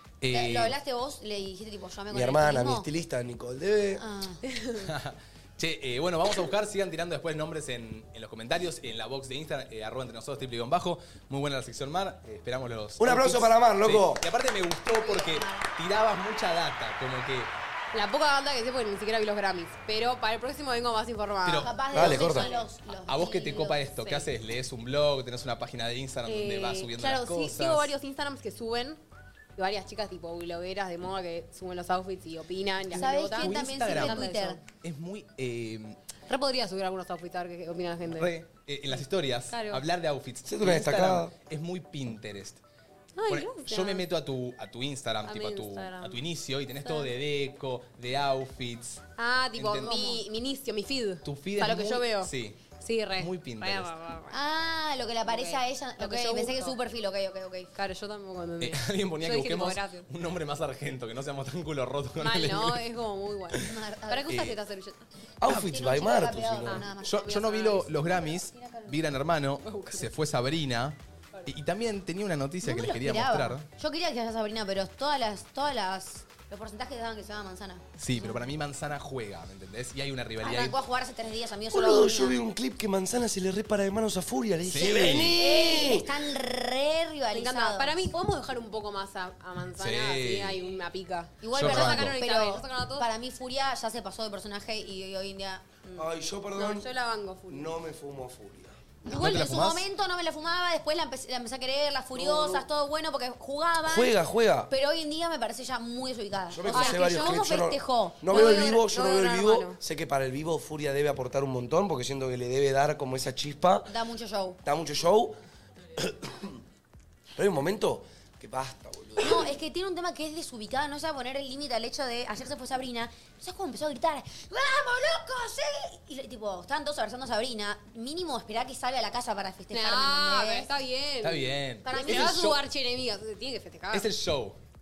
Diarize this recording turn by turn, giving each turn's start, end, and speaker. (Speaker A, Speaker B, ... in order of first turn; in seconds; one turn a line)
Speaker A: 0.2-0.8
Speaker B: 0.3-2.9
Speaker C: 2.1-4.0
Speaker B: 4.0-4.4
Speaker D: 4.5-4.9
Speaker A: 4.8-17.5
Speaker C: 13.0-14.2
Speaker B: 15.0-15.7
Speaker D: 17.9-22.6
Speaker A: 21.4-21.7
Speaker B: 21.6-24.2
Speaker C: 21.9-22.5
Speaker A: 23.1-27.9
Speaker D: 26.3-29.0
Speaker D: 29.6-34.6
Speaker B: 32.9-34.6
Speaker A: 32.9-36.0
Speaker D: 36.3-38.3
Speaker A: 38.1-42.6
Speaker D: 38.9-39.8
Speaker C: 40.5-41.3
Speaker D: 43.2-44.0
Speaker A: 43.3-49.0
Speaker D: 45.2-46.2
Speaker D: 46.8-47.1
Speaker D: 49.2-54.4
Speaker A: 49.5-50.2
Speaker A: 51.2-52.6
Speaker A: 53.2-53.9
Speaker B: 54.3-57.7
Speaker D: 55.2-56.8
Speaker D: 57.8-60.1
Speaker A: 58.6-62.8
Speaker D: 62.2-65.0
Speaker B: 63.6-64.5
Speaker C: 65.4-66.8
Speaker B: 65.5-69.0
Speaker A: 67.0-73.7
Speaker D: 69.7-70.1
Speaker B: 72.6-78.3
Speaker A: 78.0-80.8
Speaker B: 80.4-82.4
Speaker C: 81.7-86.3
Speaker A: 84.7-85.4
Speaker B: 84.9-88.0
Speaker D: 87.3-93.1
Speaker A: 89.8-90.6
Speaker B: 91.4-95.7
Speaker A: 91.5-92.2
Speaker C: 96.0-96.9
Speaker D: 96.6-97.7
Speaker C: 97.5-98.8
Speaker B: 99.0-104.2
Speaker A: 99.1-99.9
Speaker C: 102.2-102.7
Speaker C: 103.8-104.7
Speaker B: 104.7-108.8
Speaker C: 106.5-113.9
Speaker D: 106.7-107.4
Speaker D: 108.3-109.8
Speaker B: 113.9-114.6
Speaker C: 114.6-115.4
Speaker C: 116.0-116.6
Speaker C: 117.3-119.6
Speaker B: 119.2-130.7
Speaker D: 129.7-134.1
Speaker A: 131.2-132.6
Speaker B: 131.9-132.4
Speaker A: 133.9-134.6